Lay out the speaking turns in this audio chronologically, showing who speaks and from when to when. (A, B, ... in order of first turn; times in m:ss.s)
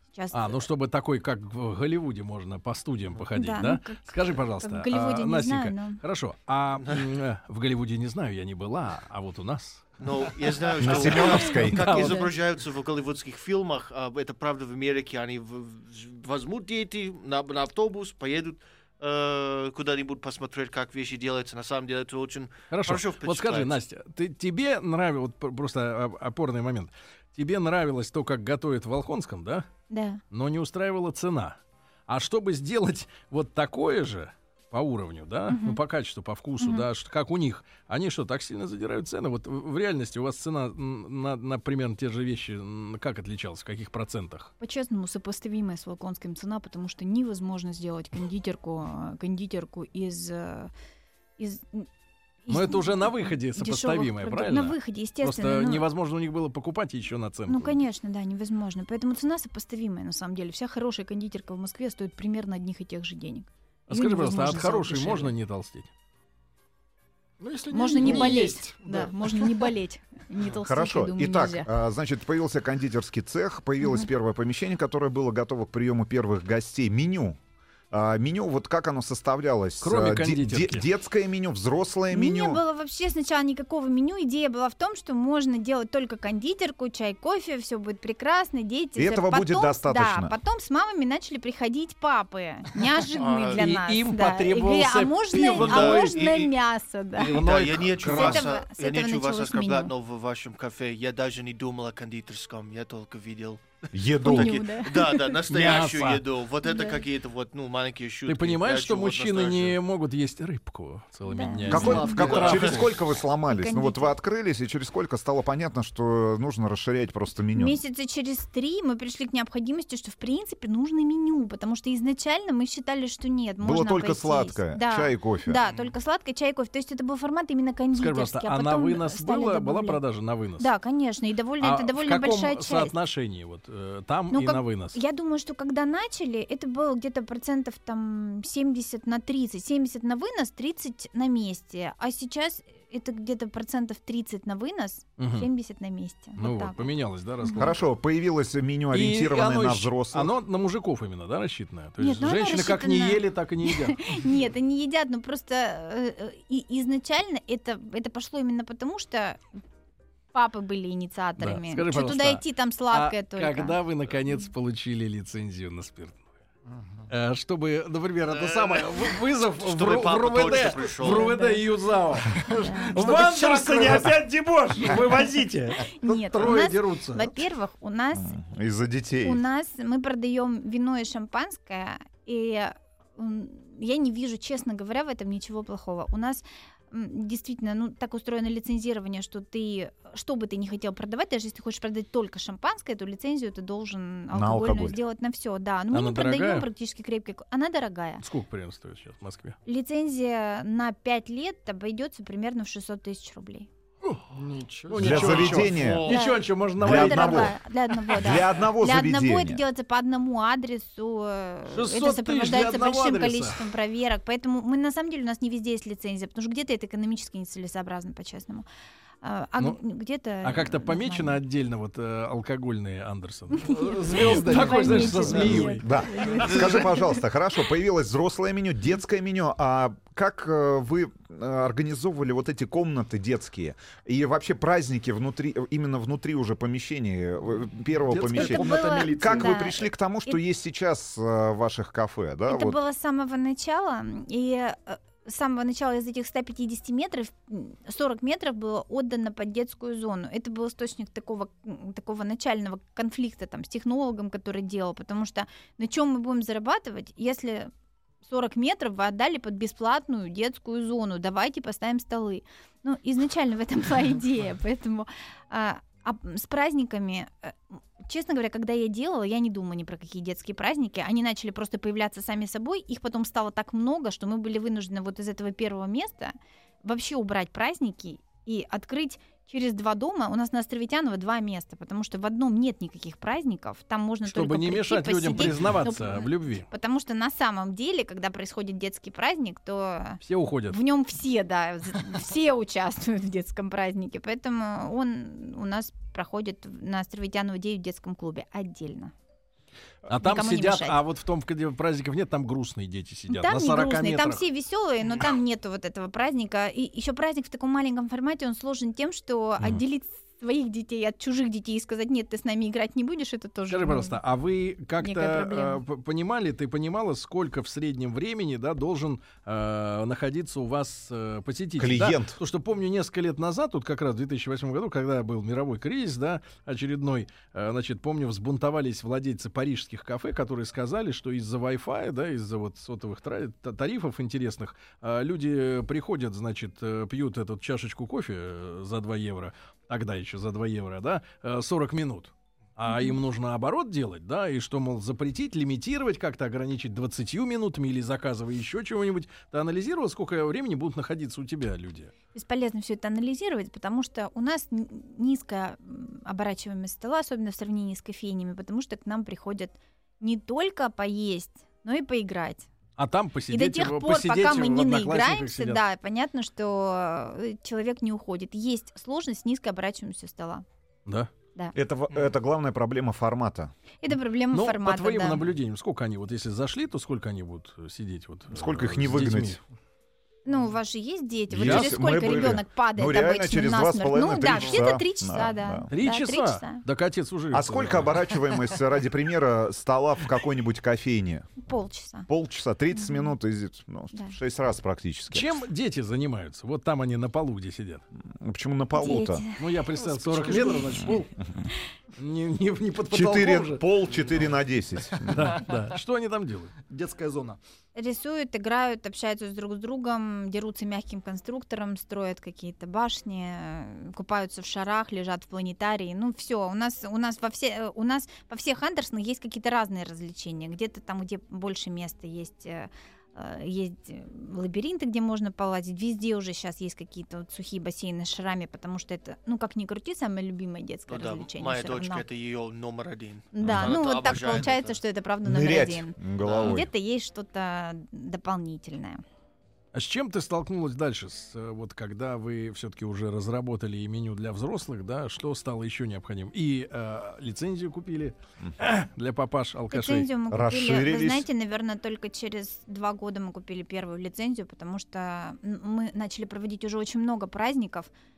0:00.1-0:00.6 A
0:00.3-0:10.0 B
0:03.3-0:06.0 A
0:06.8-0:07.1 C
0:10.0-0:23.8 C
0:10.8-0:12.3 B
0:10.8-0:12.1 D
0:22.7-0:29.7 B
0:29.9-0:30.2 A
0:30.3-0:44.5 B
0:35.5-0:35.8 A
0:36.6-0:36.9 A
0:44.6-0:50.7 A
0:51.4-0:51.9 A
0:52.5-0:55.9 A
0:52.5-0:57.8 B
0:57.5-1:05.3 A
1:03.9-1:05.9 B
1:07.4-1:09.7 E
1:07.7-1:11.7 A
1:10.6-1:17.4 D
1:13.8-1:14.1 A
1:17.9-1:22.6 D
1:19.8-1:20.9 B
1:22.1-1:37.4 A
1:29.0-1:30.4 D
1:33.2-1:33.7 C
1:33.6-1:36.2 B
1:35.5-1:36.5 C
1:37.2-1:49.8 C
1:37.2-1:38.5 B
1:38.0-1:39.9 A
1:43.9-1:44.6 D
1:44.2-1:45.4 A
1:45.5-1:46.2 B
1:46.6-1:47.0 A
1:48.3-1:53.0 B
1:51.3-1:52.3 A
1:51.7-1:57.8 D
1:51.7-1:52.7 E
1:52.4-1:52.7 C
1:53.5-1:54.1 A
1:57.6-2:10.0 A
2:03.6-2:05.6 D
2:05.6-2:05.9 C
2:08.0-2:10.7 B
2:10.6-2:12.9 A
2:11.6-2:15.0 B
2:14.3-2:27.7 A
2:25.2-2:25.5 B
2:26.4-2:27.8 B
2:27.6-2:30.3 D
2:28.9-2:34.3 B
2:32.0-2:39.4 A
2:40.3-2:43.8 A
2:41.4-2:46.2 B
2:46.7-2:47.0 E
2:47.1-2:57.3 B
2:48.3-2:51.3 C
2:51.0-2:51.6 A
2:52.3-2:54.2 E
2:52.6-2:53.1 A
2:54.8-2:55.3 E
2:55.8-2:58.4 A
2:58.2-2:59.4 D
2:59.2-3:18.2 A
3:14.3-3:15.0 D
3:15.9-3:16.7 B
3:18.2-3:19.6 B
3:19.7-3:23.7 A
3:24.3-3:25.3 E
3:24.9-3:27.6 B
3:25.0-3:26.1 D
3:25.2-3:26.2 C
3:26.1-3:38.7 A
3:26.8-3:27.6 D
3:28.1-3:29.6 D
3:31.7-3:33.6 B
3:39.2-3:41.4 A
3:40.4-3:45.8 B
3:43.5-3:47.1 A
3:43.6-3:46.5 E
3:45.8-4:02.8 D
3:58.1-3:59.6 E
3:58.3-4:00.4 A
4:02.5-4:17.7 A
4:18.2-4:59.1 A
4:44.3-4:46.7 B
4:50.2-4:50.8 B
5:00.1-5:04.4 B
5:00.1-5:01.0 A
5:03.3-5:14.2 A
5:13.7-5:52.1 B
5:15.0-5:15.8 A
5:21.8-5:22.4 D
5:42.9-5:43.2 A
5:52.3-6:02.7 A
6:03.0-6:05.8 B
6:03.5-6:10.6 A
6:11.1-6:11.3 B
6:11.8-6:13.7 D
6:14.0-6:15.4 A
6:14.5-6:19.6 B
6:18.5-6:19.6 D
6:20.5-6:26.8 A
6:21.5-6:25.9 D
6:21.6-6:22.5 B
6:24.5-6:24.9 C
6:25.9-6:28.2 B
6:27.5-6:31.5 D
6:31.6-6:32.3 A
6:32.3-6:35.5 D
6:32.9-6:33.3 A
6:35.3-6:38.0 B
6:38.3-6:39.4 D
6:38.9-6:39.6 A
6:39.6-6:41.3 B
6:40.2-6:40.9 E
6:40.4-6:41.0 A
6:42.2-6:43.9 B
6:43.1-6:45.6 D
6:45.3-6:46.8 B
6:46.9-6:47.6 E
6:48.0-7:12.2 A
7:11.1-7:15.0 C
7:13.5-7:19.2 A
7:13.6-7:13.9 D
7:15.4-7:16.9 D
7:16.4-7:16.8 C
7:19.9-7:30.3 B
7:29.9-7:38.1 A
7:30.5-7:31.5 D